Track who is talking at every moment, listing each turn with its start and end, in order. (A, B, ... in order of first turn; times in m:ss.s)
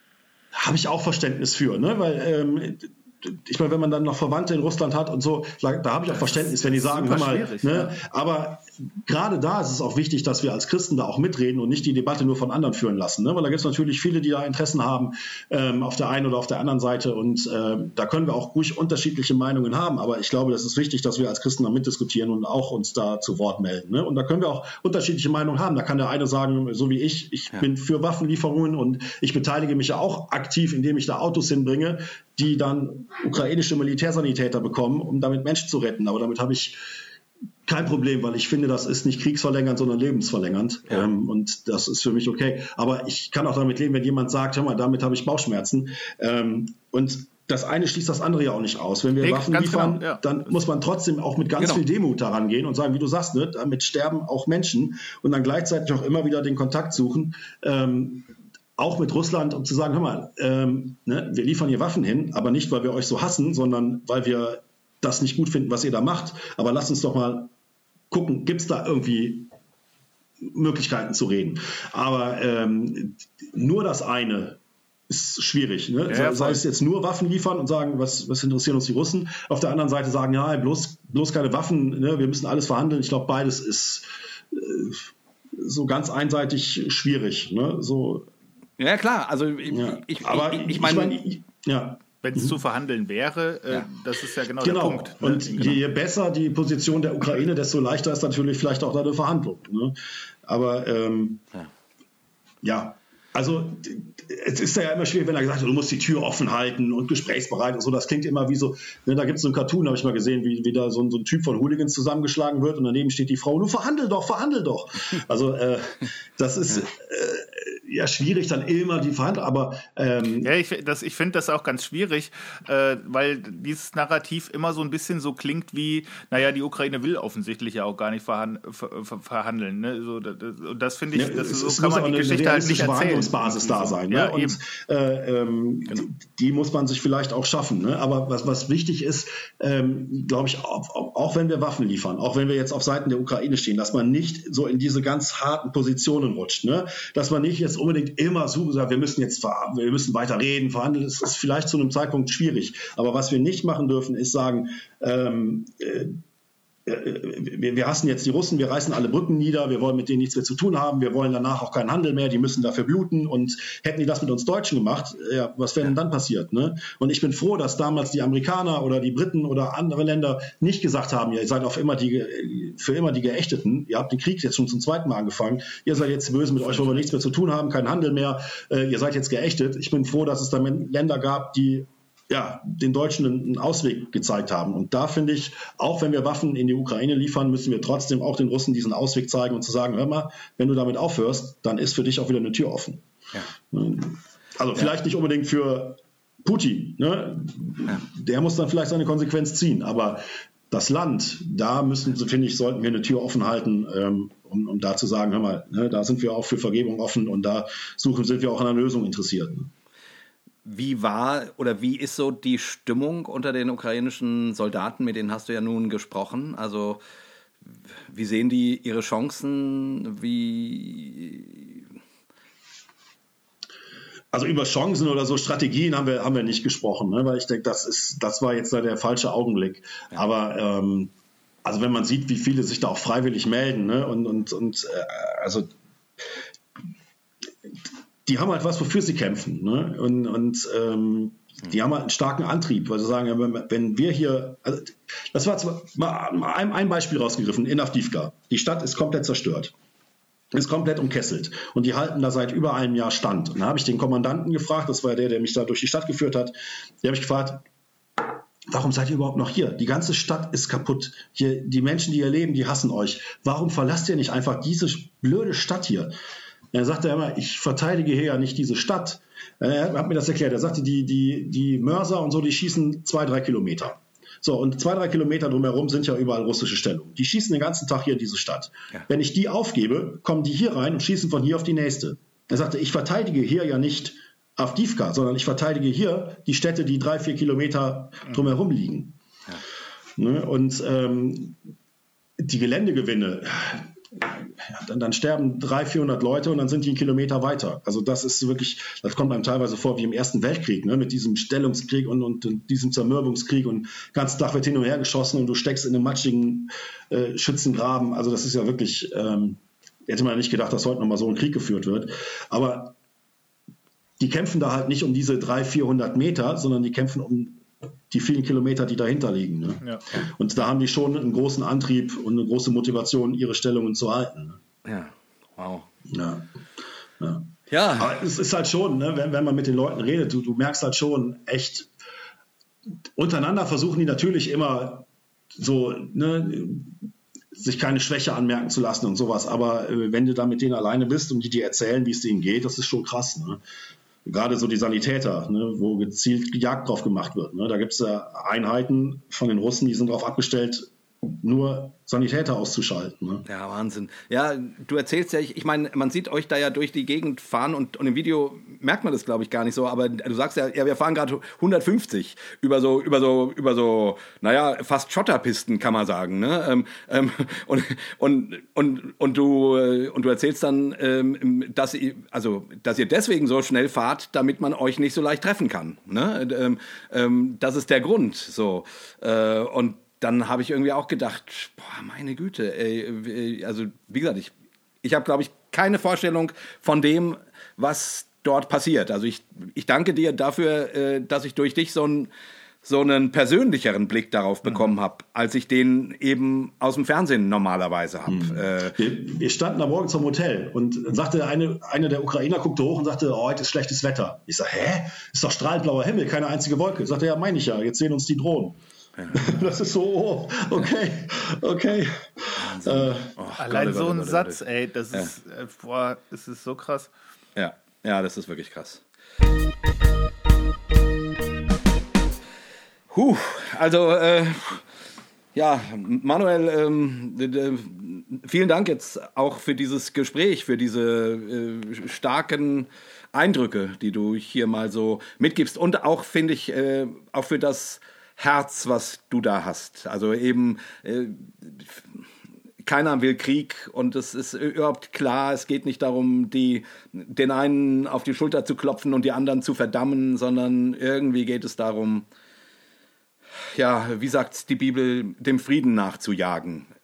0:00.5-0:36.8 A
0:06.1-0:08.0 B
0:37.6-1:07.5 A
0:49.2-0:50.2 B
1:08.1-1:09.5 A
1:10.4-1:28.3 A
1:16.1-1:16.6 B
1:28.8-1:31.2 C
1:29.7-1:32.6 A
1:32.2-1:35.8 B
1:34.6-1:41.4 A
1:42.6-2:00.5 A
2:00.4-2:14.6 B
2:11.1-2:36.2 A
2:36.8-3:13.0 A
2:56.6-2:57.0 B
3:13.7-3:29.7 A
3:30.6-3:37.0 C
3:38.1-3:41.9 C
3:44.3-3:51.1 A
3:51.6-3:56.3 A
3:58.2-4:09.7 A
4:10.5-4:17.6 A
4:18.2-4:26.1 A
4:26.7-4:49.2 A
4:50.2-4:51.6 A
4:52.4-5:13.0 A
5:14.2-5:24.6 A
5:24.8-5:25.9 C
5:26.1-5:26.5 A
5:27.2-5:31.9 A
5:27.7-5:28.2 C
5:33.2-5:43.6 A
5:44.2-5:53.4 A
5:53.5-6:32.3 C
6:32.8-6:39.0 C
6:38.2-6:48.8 A
6:49.2-6:49.6 C
6:49.3-6:53.3 A
6:52.6-6:54.6 C
6:53.6-6:57.1 B
6:57.6-6:59.0 C
7:03.1-7:04.8 C
7:05.5-7:22.2 C
7:22.8-7:32.2 C
7:33.7-7:36.9 C